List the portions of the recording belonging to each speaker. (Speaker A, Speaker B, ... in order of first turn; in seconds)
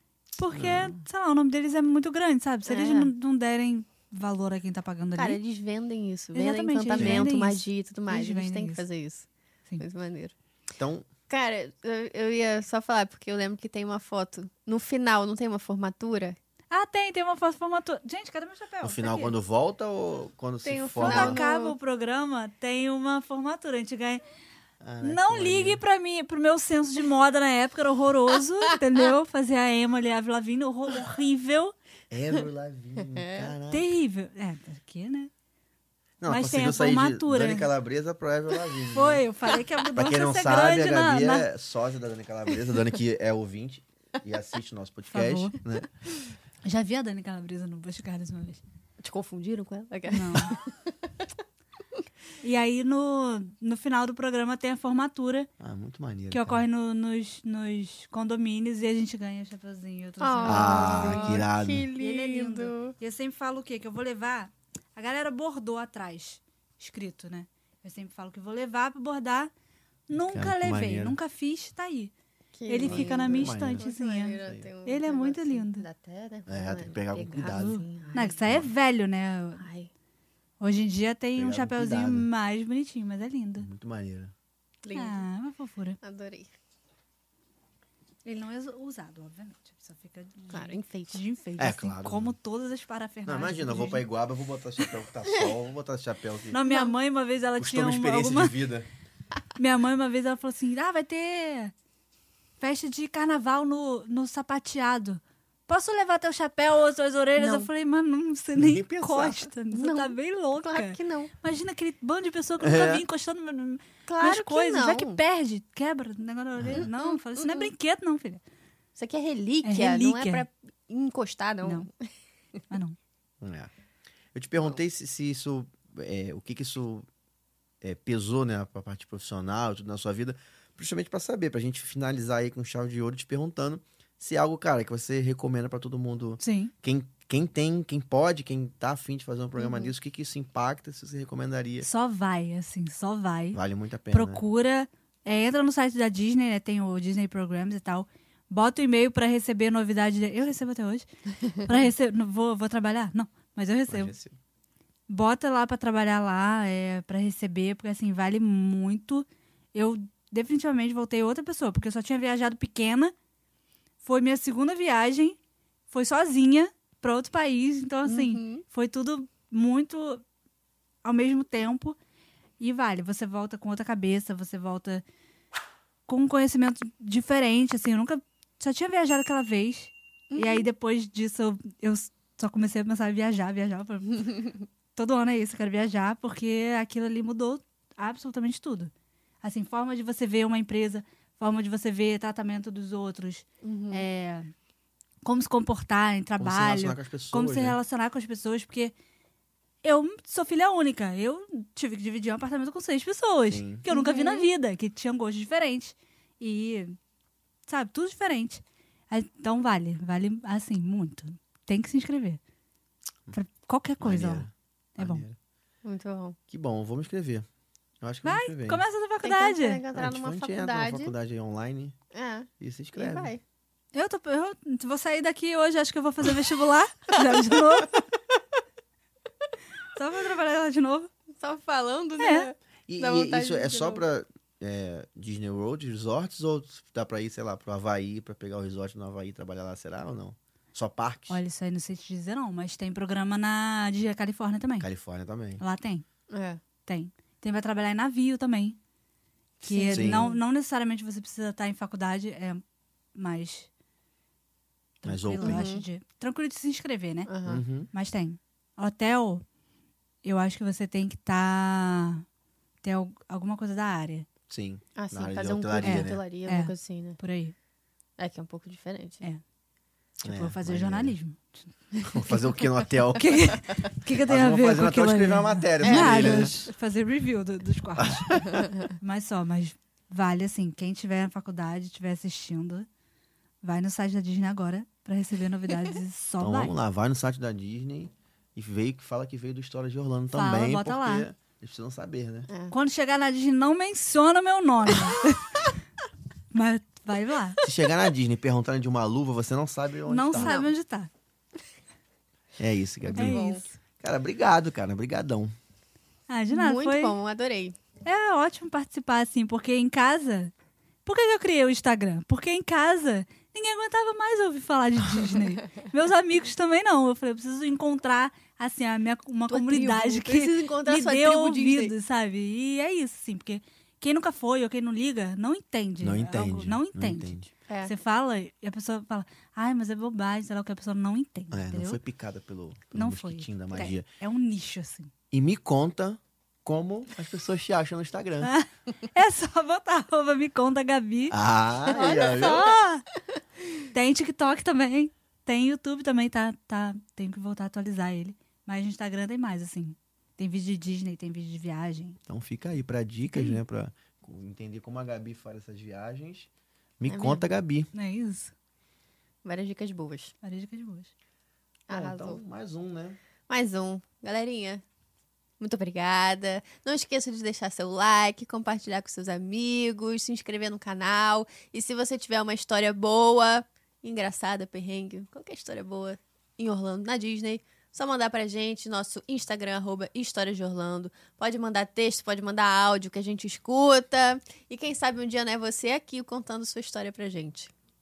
Speaker A: 0.4-5.4, 6.3-8.8, 16.7-19.1, 21.0-24.2, 25.0-31.7, 33.7-35.3, 36.3-37.7, 38.9-41.5, 45.1-45.6, 46.6-48.6, 50.1-50.5, 52.4-55.5, 56.3-61.5, 62.0-69.5, 70.1-72.1, 72.7-75.8, 77.4-79.7, 80.6-83.7, 84.9-86.0, 88.2-94.0, 96.5-98.6, 99.6-101.7, 102.6-118.4, 119.6-120.5, 122.7-123.0, 136.4-136.7, 141.8-143.6, 144.1-154.1, 155.1-163.1, 164.0-165.4, 165.9-170.2, 171.0-172.0, 172.6-175.0, 176.1-188.9, 189.4-194.5, 195.2-198.9, 199.8-207.0, 207.7-212.4, 213.3-215.2, 218.2-219.8, 223.9-228.0, 229.9-231.1, 232.2-232.5, 241.3-244.9, 245.6-246.1, 246.9-248.8, 249.6-252.6, 253.2-253.7, 255.0-257.3, 257.9-259.4, 260.2-262.2, 262.8-264.3, 265.8-267.5, 270.2-272.5, 273.1-282.9, 283.6-286.7, 290.3-291.3, 292.7-295.7, 296.5-297.6, 300.1-301.1, 303.1-303.6, 306.3-307.2, 308.0-310.5, 311.1-332.0, 332.9-335.1, 338.4-341.4, 342.1-343.1, 343.9-352.2, 353.3-353.6, 357.9-358.5, 360.4-361.1
Speaker B: 0.5-1.0, 7.0-7.3, 10.8-11.1, 18.8-21.4, 24.8-25.8, 32.1-33.9, 36.2-39.2, 39.9-45.9, 55.6-56.6, 60.5-61.9, 70.1-71.2, 72.8-73.9, 74.4-74.7, 76.5-77.8, 81.4-82.3, 83.6-84.3, 91.6-92.3, 93.3-96.6, 97.6-98.9, 108.5-109.5, 112.6-113.1, 116.6-116.9, 123.4-123.7, 124.3-127.1, 127.8-141.9, 143.5-144.4, 153.9-154.4, 196.4-197.8, 203.5-203.8, 214.0-215.4, 216.5-217.5, 218.0-218.8, 219.9-221.9, 222.6-223.3, 232.9-241.4, 244.8-245.6, 249.9-250.3, 255.0-255.7, 257.5-257.9, 264.5-266.2, 270.2-271.1, 272.1-273.5, 274.2-276.5, 278.0-278.6, 286.4-292.5, 297.6-300.6, 302.6-305.5, 326.0-327.4, 331.5-334.1, 335.3-338.5, 341.3-342.7, 352.3-356.5, 357.0-357.9, 361.9-363.2
Speaker C: 2.7-3.1, 5.2-10.3, 11.3-16.4, 19.0-19.3, 20.6-21.8, 33.0-33.5, 49.0-50.9, 60.2-62.9, 72.5-78.6, 79.6-79.9, 84.8-85.3, 86.0-86.5, 90.5-91.2, 95.2-95.5, 96.7-96.9, 107.4-107.7, 109.7-111.3, 114.1-115.2, 116.8-117.7, 119.0-122.1, 139.6-139.9, 168.1-168.6, 180.3-180.7, 193.6-194.1, 203.9-204.5, 215.8-216.4, 219.2-221.1, 222.1-223.4, 231.4-234.0, 246.3-246.6, 249.6-250.4, 255.4-255.8, 257.3-257.6, 265.0-267.2, 268.2-269.2, 275.8-276.6, 278.5-278.8, 292.5-292.7, 300.4-300.7, 303.1-303.7, 306.5-307.8, 319.5-321.9, 341.9-342.7, 357.1-357.4, 359.4-360.3, 361.9-362.4, 363.5-364.8, 365.6-387.7